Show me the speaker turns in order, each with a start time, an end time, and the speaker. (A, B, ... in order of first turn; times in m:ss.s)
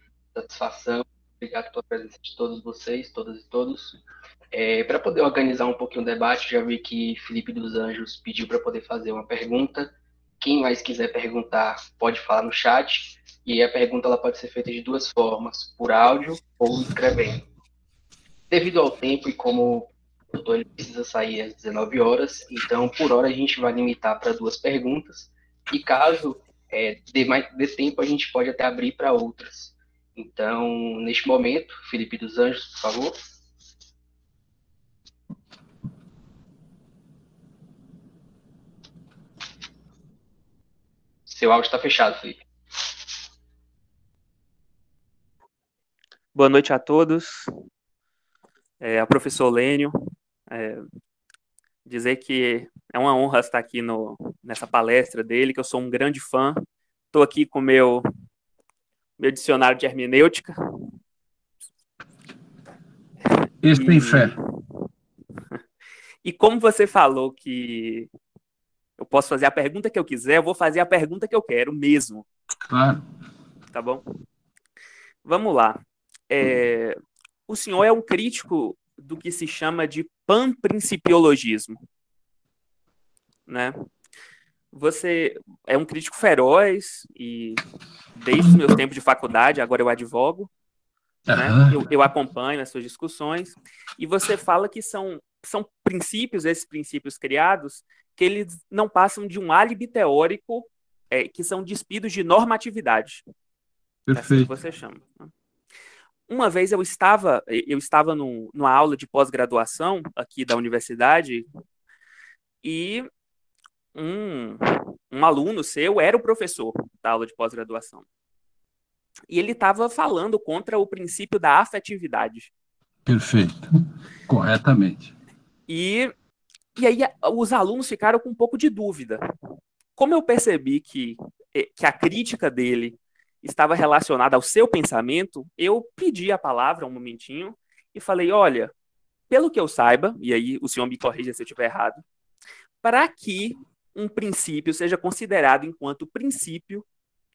0:00.4-0:04.0 A
0:04.5-0:17.4 A
0:18.5-0:33.1 A
0:41.3-0:42.4 A
0:46.4-0:47.5 B
0:48.8-0:49.9 B
0:50.5-0:50.8 B
0:51.8-0:56.6 B
0:57.1-0:58.0 B
0:59.2-1:00.9 B
1:03.6-1:04.4 C
1:03.7-1:04.4 B
1:06.2-1:08.1 B
1:09.0-1:12.3 B
1:12.7-1:13.0 C
1:13.7-1:14.0 B
1:15.2-1:15.8 B
1:16.3-1:17.0 B
1:17.5-1:21.8 B
1:23.5-1:23.8 B
1:24.7-1:27.6 B
1:28.2-1:30.5 B
1:31.3-1:31.8 C
1:31.3-1:43.2 B
1:44.1-1:44.5 C
1:44.1-1:45.3 B
1:46.3-1:51.5 B
1:52.6-1:53.1 B
1:54.0-1:58.0 B
1:59.3-2:02.5 B
2:03.1-2:05.1 C
2:05.7-2:06.1 B
2:06.8-2:09.2 B
2:10.0-2:18.7 B
2:19.3-2:22.0 B
2:22.8-2:26.8 B